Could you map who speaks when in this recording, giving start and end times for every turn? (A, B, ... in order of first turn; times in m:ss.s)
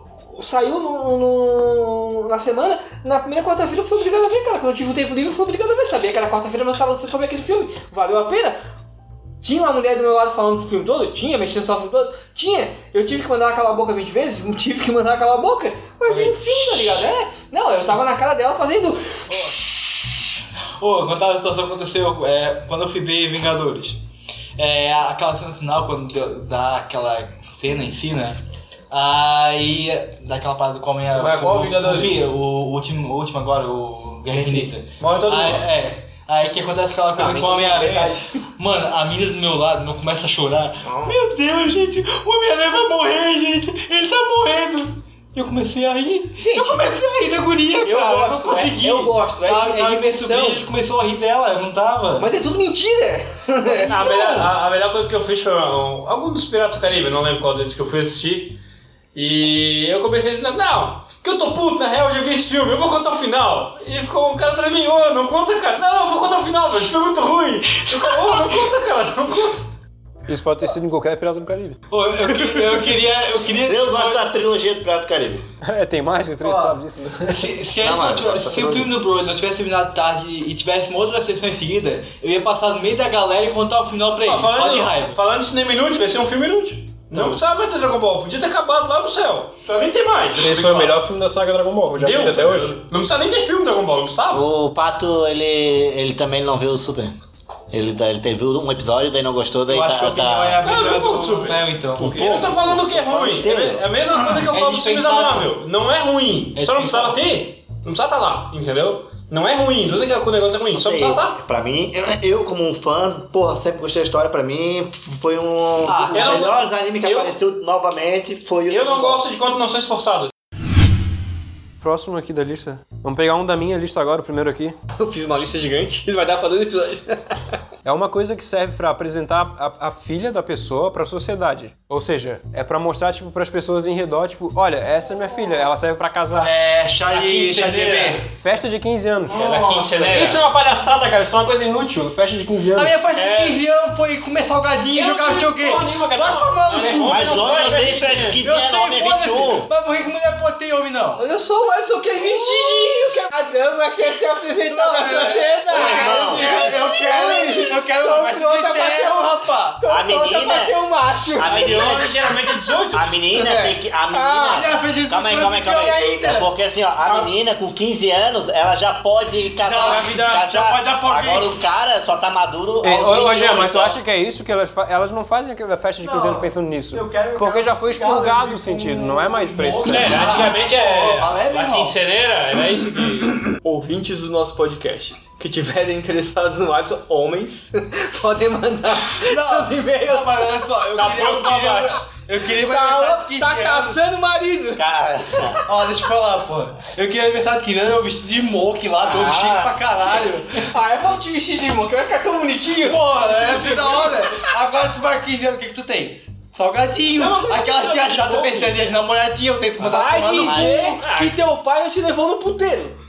0:00.3-0:08.6 A
0:09.4-0:19.4 A
0:16.1-0:16.9 B
0:19.3-0:19.8 C
0:20.8-0:24.0 C
0:24.6-0:28.4 C
0:28.9-0:52.3 C
0:31.1-0:32.2 B
0:34.3-0:34.7 A
0:35.0-0:35.7 B
0:37.1-0:38.4 A
0:40.8-0:41.2 A
0:46.4-0:47.0 A
0:47.8-0:50.6 A
0:52.2-0:54.5 A
0:53.6-0:54.0 C
0:53.8-0:58.6 B
0:59.1-1:09.6 B
1:08.1-1:08.6 C
1:10.3-1:11.8 D
1:11.9-1:14.3 C
1:13.6-1:15.4 E
1:15.6-1:17.5 D
1:16.4-1:16.8 C
1:17.3-1:25.2 C
1:17.8-1:18.9 E
1:24.2-1:31.0 B
1:27.1-1:27.4 D
1:30.4-1:32.8 D
1:32.0-1:34.4 B
1:34.3-1:37.1 E
1:37.7-1:40.6 E
1:39.7-1:42.1 C
1:40.6-1:51.4 B
1:42.0-1:44.2 E
1:44.1-1:45.5 C
1:46.6-1:47.2 C
1:50.7-1:59.2 E
1:55.8-1:56.5 C
1:56.1-1:57.4 B
1:58.7-2:00.3 B
2:01.8-2:04.8 D
2:04.9-2:07.4 A
2:07.8-2:16.5 D
2:16.4-2:18.3 C
2:17.0-2:18.2 B
2:18.4-2:19.6 D
2:19.3-2:20.4 B
2:19.4-2:20.1 A
2:20.1-2:23.0 D
2:22.8-2:27.3 C
2:23.1-2:23.6 B
2:24.9-2:27.8 D
2:26.7-2:28.4 B
2:27.0-2:29.7 E
2:28.4-2:31.2 C
2:31.2-2:42.1 A
2:34.7-2:39.8 C
2:35.7-2:36.6 E
2:39.9-2:40.8 E
2:41.4-2:42.2 E
2:41.4-2:43.1 B
2:42.9-2:54.0 E
2:43.3-2:44.7 A
2:44.5-2:46.5 C
2:49.6-2:51.6 C
2:49.8-2:50.5 B
2:52.8-3:00.5 D
2:56.0-3:02.0 C
2:59.8-3:03.4 B
3:03.6-3:14.9 A
3:09.1-3:14.0 C
3:14.8-3:15.6 E
3:15.6-3:20.7 C
3:19.0-3:24.4 A
3:22.8-3:31.0 C
3:29.8-3:33.0 A
3:30.4-3:30.9 E
3:30.9-3:31.4 B